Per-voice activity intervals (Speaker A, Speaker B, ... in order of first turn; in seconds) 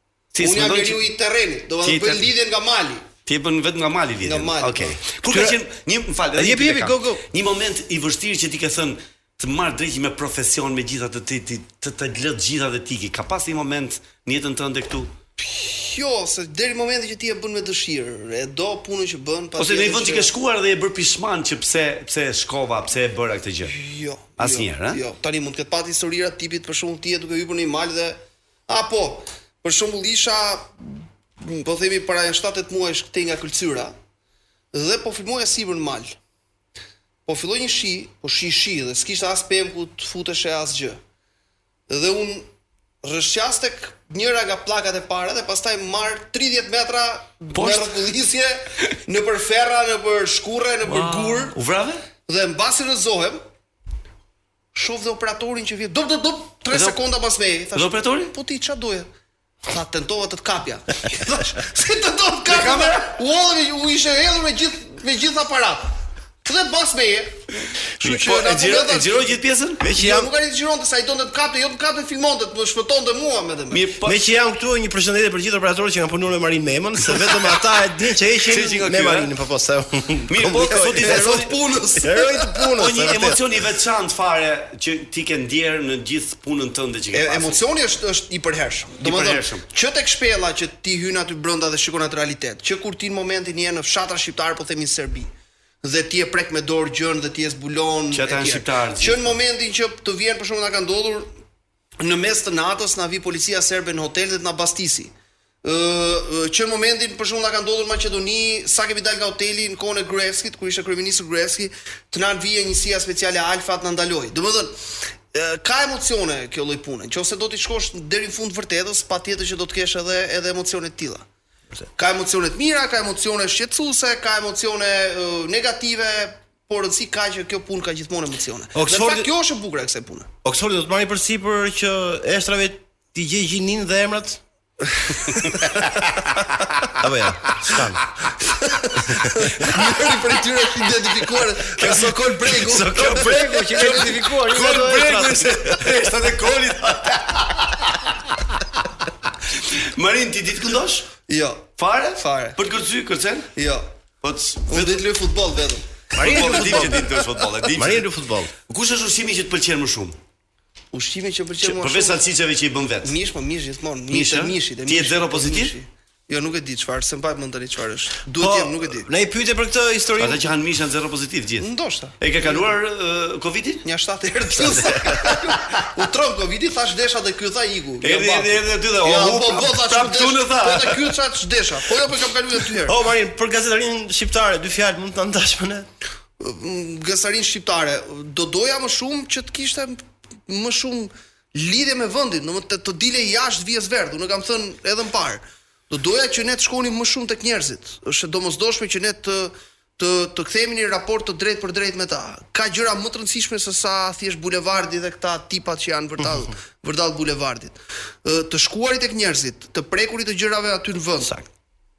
Speaker A: 0.3-1.1, 1.8-2.3, 3.2-15.1, 19.6-23.7, 24.4-25.0, 47.5-47.9, 50.8-52.0, 56.7-57.0, 57.7-58.3, 62.5-63.1, 68.0-69.8, 73.7-74.2, 78.5-79.3, 80.3-81.6, 82.7-87.6, 89.0-89.6, 98.1-99.4, 142.9-147.8, 149.6-151.1, 151.8-153.5, 154.2-155.0, 156.1-158.1, 158.7-160.2, 161.6-163.1, 164.1-165.7, 170.2-171.7, 172.2-173.8, 178.0-181.1
Speaker B: 0.4-3.1, 4.2-5.0, 15.4-20.3, 23.6-33.9, 34.7-36.1, 37.2-41.0, 41.9-42.5, 43.0-51.5, 52.2-53.4, 54.7-59.1, 59.7-65.9, 66.4-69.3, 69.9-73.8, 80.8-82.7, 87.1-95.3, 95.8-101.3, 102.0-105.1, 105.6-114.8, 115.3-121.2, 122.0-130.3, 138.6-144.2, 151.2-152.6, 153.5-153.9, 154.7-157.1, 160.9-162.2, 163.0-169.1, 171.6-172.7, 173.8-183.0, 186.4-211.4
Speaker C: 5.3-5.6, 6.3-7.2, 69.8-70.3, 74.0-81.3, 82.0-83.4, 128.7-129.3, 130.4-134.4, 136.9-138.0, 139.2-139.7, 142.5-145.9, 156.1-157.1, 157.8-158.5, 168.4-170.4, 174.6-175.4, 182.8-185.9